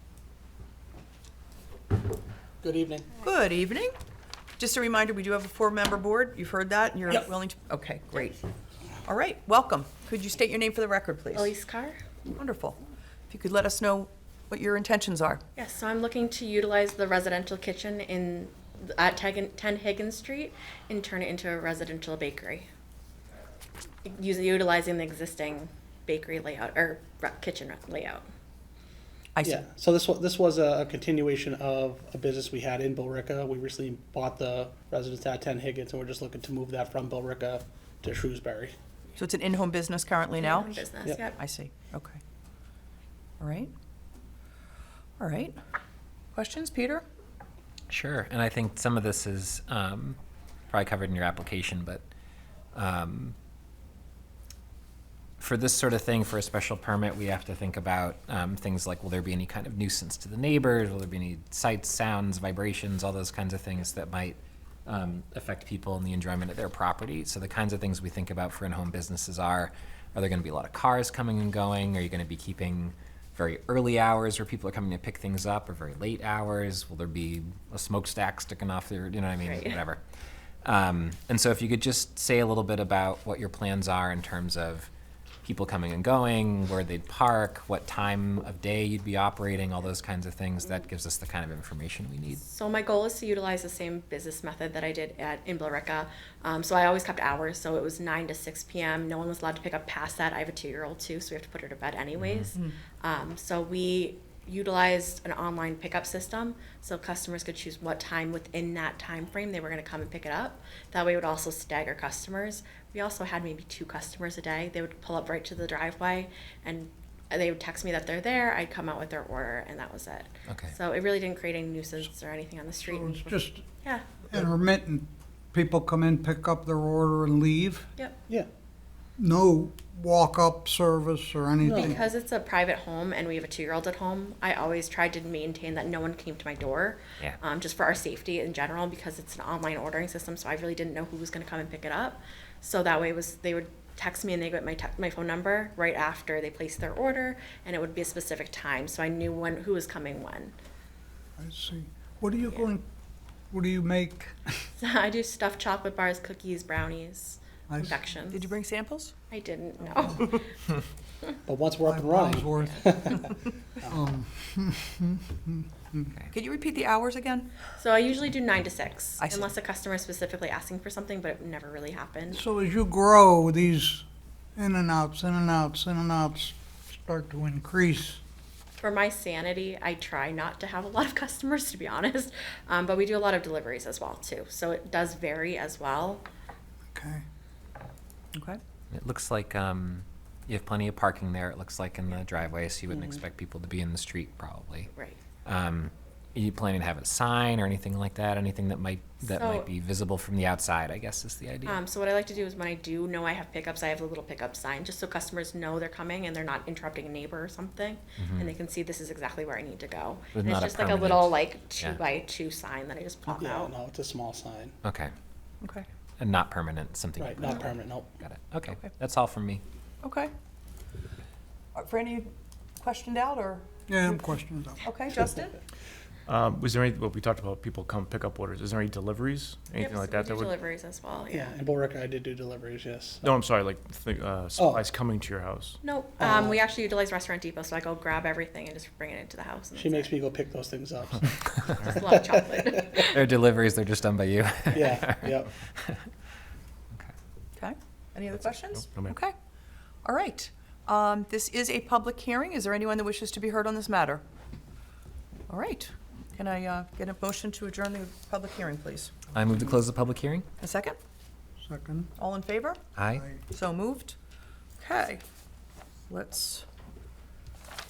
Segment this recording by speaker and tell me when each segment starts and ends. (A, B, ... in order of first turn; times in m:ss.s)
0:02.6-0:03.1 A
0:03.2-0:03.9 B
0:04.6-0:08.4 B
0:09.0-0:11.5 B
0:11.3-0:12.0 C
0:12.3-0:12.8 B
0:13.3-0:15.4 B
0:15.6-0:22.7 C
0:24.0-0:28.2 C
0:29.4-0:29.6 B
0:29.4-0:38.7 A
0:39.2-0:42.2 B
0:40.4-0:41.4 C
0:43.4-0:43.7 B
0:45.2-0:45.6 B
0:46.3-0:47.0 B
0:47.9-0:50.2 D
0:50.7-0:52.0 D
0:52.7-0:53.3 D
0:55.4-1:20.0 D
1:19.4-1:19.8 C
1:20.6-1:24.9 D
1:25.4-1:32.4 D
1:32.3-2:04.0 C
1:42.2-1:42.5 D
2:00.5-2:00.7 D
2:02.9-2:03.6 E
2:04.3-2:07.9 E
2:09.2-2:12.0 E
2:11.6-2:12.0 A
2:11.7-2:30.5 C
2:31.4-2:32.9 E
2:33.5-2:34.6 E
2:34.8-2:38.5 C
2:37.7-2:38.0 E
2:38.3-2:39.1 B
2:39.3-2:40.5 C
2:41.5-2:43.3 A
2:41.9-2:43.2 E
2:42.6-2:42.9 C
2:43.9-2:46.1 E
2:46.3-2:47.5 B
2:47.8-2:52.4 C
2:49.2-2:49.5 B
2:52.3-2:54.0 E
2:54.6-2:58.2 E
2:58.8-3:06.2 C
3:06.9-3:07.2 E
3:08.3-3:08.6 B
3:08.9-3:14.9 D
3:14.9-3:15.2 C
3:15.4-3:21.8 D
3:19.2-3:19.7 C
3:21.6-3:33.7 C
3:28.2-3:28.5 D
3:30.3-3:32.0 D
3:33.3-3:34.8 A
3:34.8-3:35.1 D
3:36.2-3:39.6 D
3:37.2-3:38.2 A
3:40.0-3:40.3 B
3:41.8-3:43.6 B
3:43.9-3:44.8 E
3:44.8-3:45.6 B
3:46.3-3:50.5 F
3:49.8-3:51.5 C
3:51.3-3:53.3 A
3:53.2-3:55.8 F
3:54.6-3:54.8 A
3:55.8-4:00.1 C
3:56.2-3:56.6 A
3:59.8-4:01.4 A
4:01.5-4:01.8 D
4:01.8-4:03.2 C
4:02.1-4:03.0 A
4:03.1-4:06.1 D
4:04.7-4:05.5 A
4:07.6-4:09.3 B
4:08.8-4:09.2 F
4:10.0-4:14.2 B
4:15.5-4:19.1 B
4:19.3-4:20.5 D
4:20.6-4:21.0 B
4:21.6-4:22.1 E
4:22.2-4:22.8 B
4:22.9-4:23.2 D
4:23.1-4:23.4 E
4:23.5-4:24.2 B
4:24.8-4:25.2 B
4:26.1-4:26.6 B